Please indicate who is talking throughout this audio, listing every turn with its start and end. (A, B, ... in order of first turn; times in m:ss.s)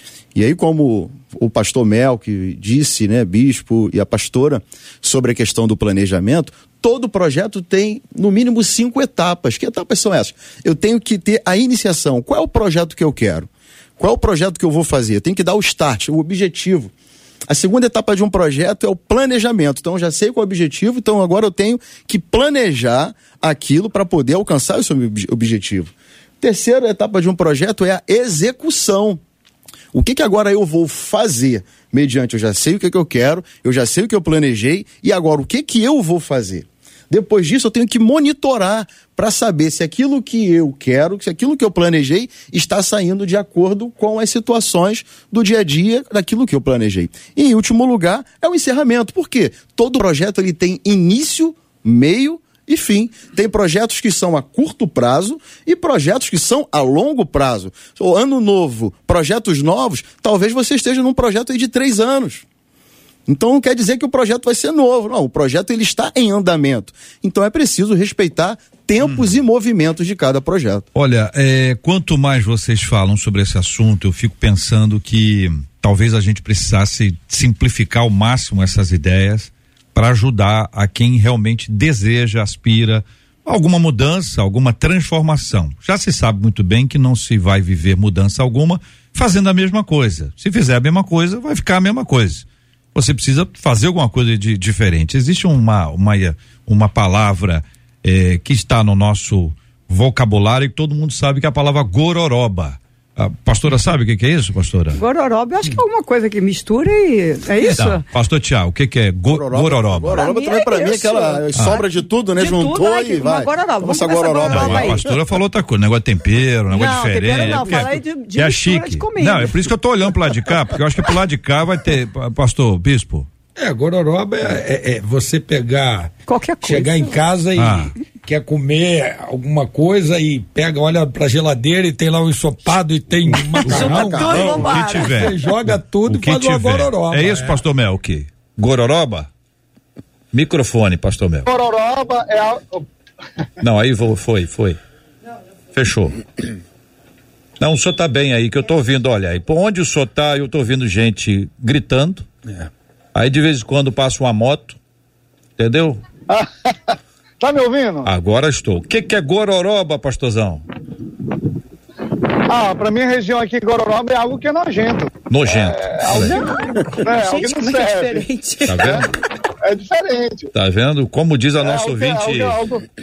0:00.4-0:16.9 A
0:17.5-0:29.2 A
0:29.9-1:02.4 A
1:03.3-1:10.9 A
1:09.0-1:09.3 B
1:11.0-1:45.0 B
1:45.0-1:48.0 C
1:47.8-1:50.2 B
1:49.3-1:55.1 A
1:50.1-1:55.0 C
1:54.5-2:03.3 B
1:56.7-1:59.5 C
2:03.6-2:17.6 D
2:06.3-2:07.1 C
2:07.6-2:07.9 B
2:13.5-2:15.3 C
2:13.7-2:14.5 A
2:14.3-2:19.3 B
2:20.3-2:21.5 B
2:21.5-2:22.8 E
2:23.6-2:24.8 B
2:25.7-2:26.4 B
2:27.6-2:32.3 B
2:33.2-2:34.8 B
2:35.6-2:36.0 B
2:36.3-2:38.1 E
2:38.0-2:40.6 B
2:42.5-2:49.1 E
2:45.3-2:46.4 B
2:46.2-2:48.9 C
2:48.7-2:49.1 B
2:49.6-2:50.5 E
2:50.5-2:52.6 B
2:51.6-2:52.8 E